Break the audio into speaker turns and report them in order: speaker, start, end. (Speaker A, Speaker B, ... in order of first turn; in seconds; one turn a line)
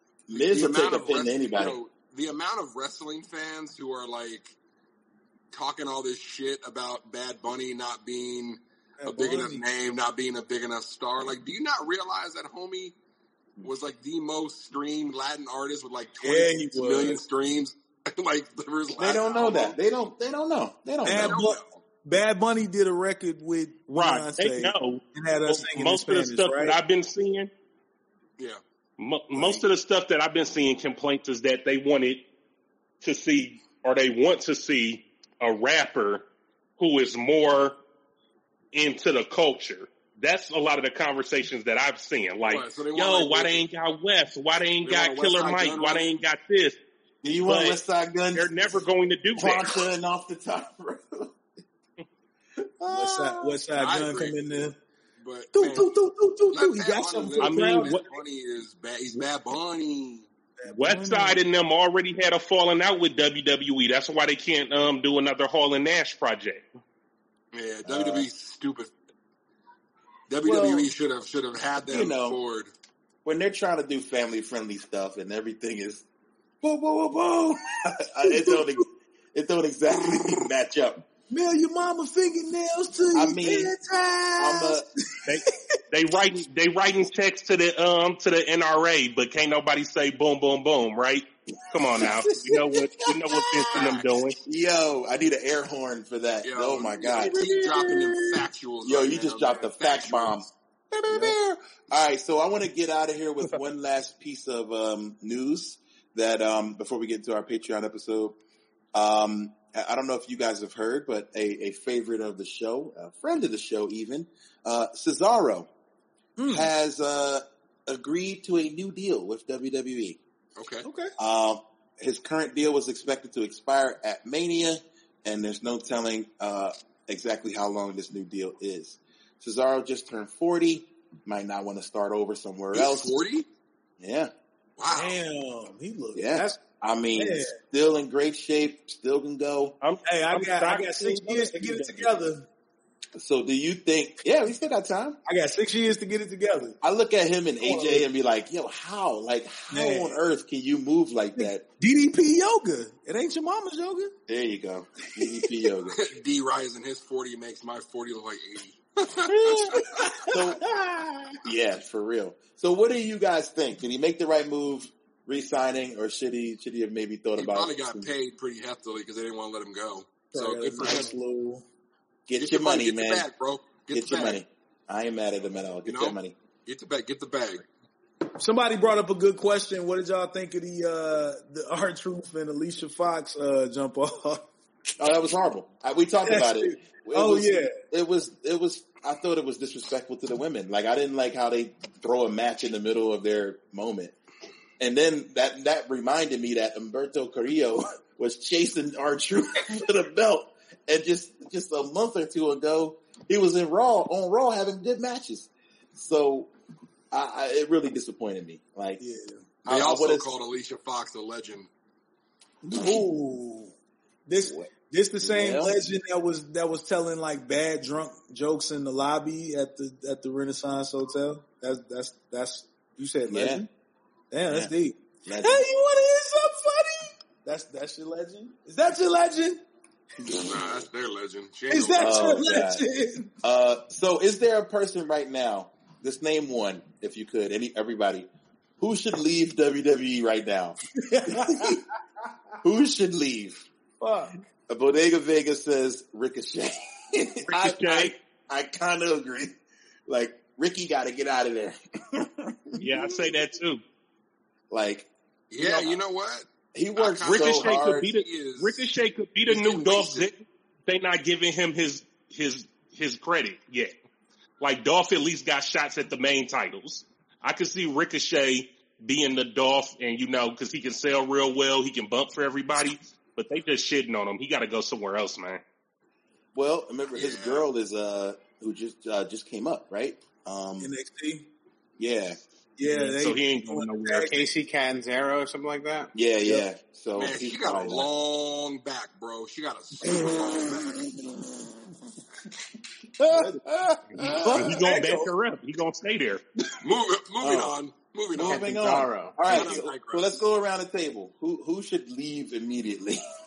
Speaker A: 0.3-1.8
Speaker B: 0.3-4.5
Speaker B: 5.5-12.9
Speaker C: 9.0-9.6
Speaker B: 13.6-19.8
Speaker C: 16.2-17.2
Speaker A: 18.9-21.4
Speaker C: 21.0-26.8
Speaker B: 21.1-21.8
Speaker D: 23.9-27.5
Speaker D: 29.0-32.2
Speaker A: 29.3-29.6
Speaker D: 33.0-36.3
Speaker D: 36.8-37.8
Speaker D: 38.7-46.8
Speaker B: 42.5-43.6
Speaker B: 44.8-46.1
Speaker A: 47.2-48.8
Speaker D: 47.5-47.8
Speaker D: 48.3-49.8
Speaker A: 49.4-51.4
Speaker A: 52.8-53.6
Speaker C: 52.9-54.8
Speaker B: 53.8-54.4
Speaker B: 55.2-55.9
Speaker C: 55.5-58.0
Speaker B: 56.5-60.3
Speaker D: 57.4-58.1
Speaker C: 60.6-61.4
Speaker D: 60.7-66.7
Speaker B: 67.5-68.9
Speaker A: 67.8-68.3
Speaker B: 70.3-72.7
Speaker A: 70.4-70.9
Speaker A: 71.8-72.4
Speaker A: 73.2-76.0
Speaker A: 76.6-81.0
Speaker C: 78.2-78.8
Speaker C: 81.3-85.6
Speaker A: 83.1-83.7
Speaker A: 84.4-84.8
Speaker D: 85.2-94.4
Speaker A: 91.9-108.4
Speaker B: 93.7-94.1
Speaker B: 96.4-100.5
Speaker C: 101.1-101.3
Speaker A: 108.9-115.7
Speaker C: 116.4-116.7
Speaker A: 116.5-120.2
Speaker B: 120.6-120.8
Speaker C: 120.8-121.1
Speaker A: 121.2-133.2
Speaker B: 132.7-133.5
Speaker A: 134.0-134.3
Speaker B: 134.8-135.2
Speaker C: 134.9-137.6
Speaker A: 136.1-139.7
Speaker D: 139.8-141.8
Speaker C: 140.0-142.5
Speaker A: 141.5-142.1
Speaker A: 143.2-145.2
Speaker C: 145.2-146.8
Speaker A: 146.8-151.6
Speaker C: 147.6-148.1
Speaker C: 149.7-150.2
Speaker C: 151.3-154.1
Speaker A: 154.3-156.1
Speaker C: 155.2-155.6
Speaker B: 155.9-159.9
Speaker A: 159.3-159.7
Speaker C: 160.0-161.4
Speaker A: 160.3-160.6
Speaker A: 161.4-168.1
Speaker B: 167.4-171.2
Speaker C: 170.3-171.6
Speaker A: 172.3-173.3
Speaker B: 172.4-174.4
Speaker A: 173.9-176.3
Speaker B: 175.8-177.6
Speaker C: 178.4-184.4
Speaker A: 185.0-194.2
Speaker C: 186.2-187.8
Speaker A: 194.8-206.5
Speaker A: 207.1-209.0
Speaker C: 209.0-209.5
Speaker A: 209.6-210.3
Speaker B: 209.7-211.7
Speaker A: 212.6-213.0
Speaker C: 212.7-213.7
Speaker C: 214.3-223.7
Speaker A: 214.4-215.8
Speaker A: 223.3-223.6
Speaker C: 224.3-229.6
Speaker A: 224.5-224.7
Speaker A: 225.2-225.7
Speaker C: 230.2-230.6
Speaker B: 230.3-232.3
Speaker C: 231.7-233.3
Speaker A: 232.0-232.8
Speaker A: 233.4-238.3
Speaker A: 238.8-240.8
Speaker C: 241.0-241.8
Speaker A: 241.3-241.8
Speaker A: 242.6-243.7
Speaker C: 244.0-244.3
Speaker A: 244.7-253.2
Speaker D: 247.5-248.1
Speaker D: 252.8-253.8
Speaker A: 254.7-256.0
Speaker B: 255.5-258.9
Speaker A: 256.7-258.1
Speaker D: 257.2-263.9
Speaker B: 259.5-260.3
Speaker D: 264.6-275.6
Speaker A: 276.5-280.9
Speaker B: 277.1-277.6
Speaker C: 280.8-281.5
Speaker A: 282.0-282.4
Speaker C: 282.8-284.4
Speaker D: 282.9-284.4
Speaker E: 284.2-286.1
Speaker A: 286.1-288.1
Speaker B: 287.1-291.1
Speaker A: 293.2-294.8
Speaker D: 294.1-296.4
Speaker C: 294.4-295.3
Speaker B: 296.8-298.8
Speaker A: 297.4-297.8
Speaker A: 298.3-303.3
Speaker E: 298.4-299.8
Speaker B: 299.4-300.4